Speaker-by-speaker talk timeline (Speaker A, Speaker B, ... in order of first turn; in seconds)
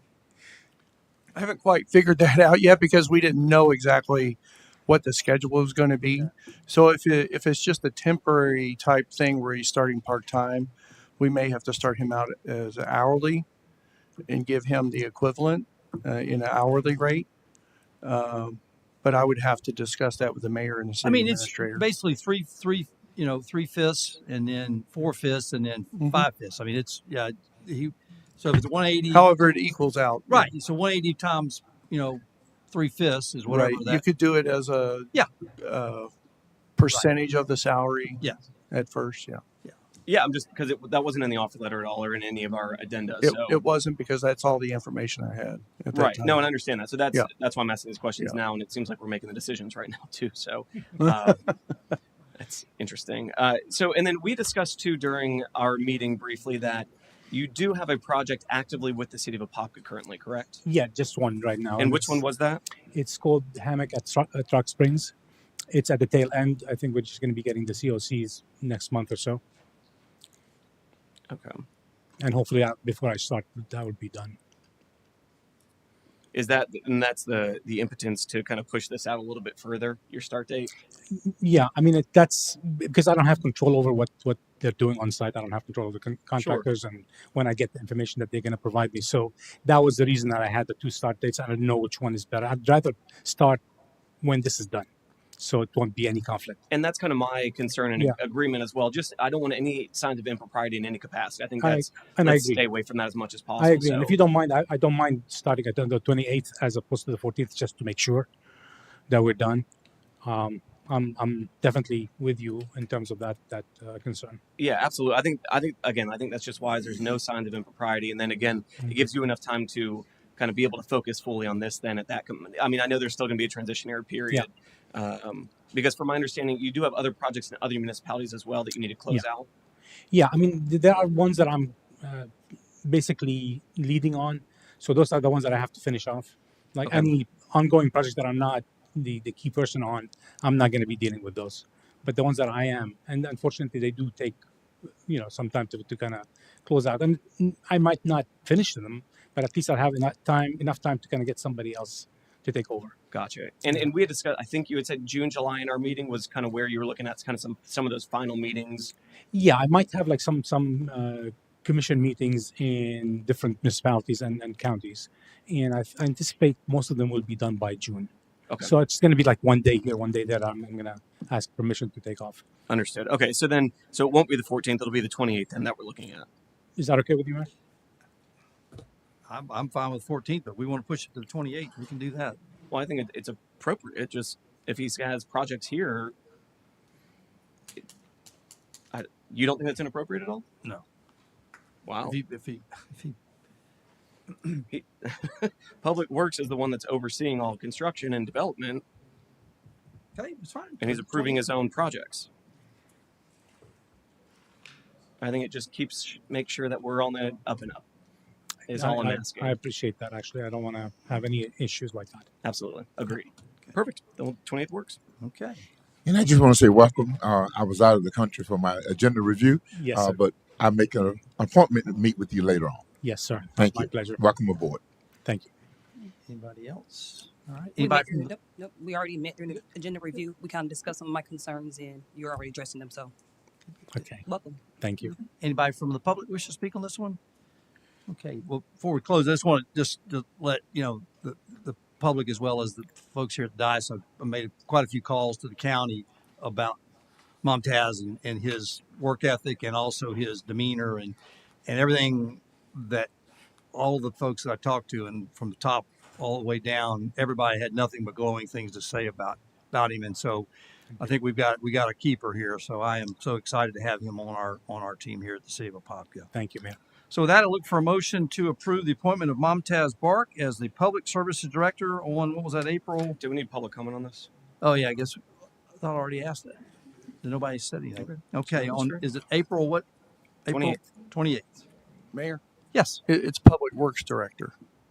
Speaker A: 1.3-13.5, 14.3-17.3, 18.0-21.9, 25.9-26.3, 29.1-30.5, 33.5-36.1, 36.8-39.4, 43.2-46.4, 282.1-282.4, 283.1-284.5
Speaker B: 21.0-29.3, 30.3-34.0, 179.2-182.4, 192.0-193.2, 200.2-201.4, 215.2-215.7, 226.2-228.3, 235.4-237.2, 238.1-246.8, 247.4-253.1, 253.7-266.3, 267.1-273.2, 274.6-276.6, 277.2-279.9, 280.4-281.6, 282.7-283.0
Speaker C: 40.1-43.6, 45.9-51.5, 52.4-60.6, 61.8-62.6, 71.3-71.6, 76.3-80.7, 86.4-86.6, 96.7-104.1, 114.6-129.5, 136.8-137.1, 153.1-158.9, 172.7-176.2, 182.7-186.1, 188.9-190.4, 191.8-192.2, 194.7-198.8, 200.8-202.3, 205.2-207.8, 208.7-209.5, 212.4-215.0, 273.2-274.3, 278.6-279.0, 280.5-280.8
Speaker D: 60.6-62.2, 62.9-65.1, 65.7-69.4, 72.2-74.4, 81.1-93.6, 94.2-96.6, 101.6-102.6, 103.6-108.3, 109.1-109.6, 110.2-114.4, 130.1-144.4, 145.1-152.9, 159.3-172.4, 176.8-177.5, 208.7-212.3, 219.7-220.2, 223.0-224.2, 225.2-225.5, 233.9-234.2, 234.8-235.1, 266.3-266.8
Speaker E: 216.0-222.8, 223.6-224.8
Speaker F: 227.8-233.1, 234.2-234.6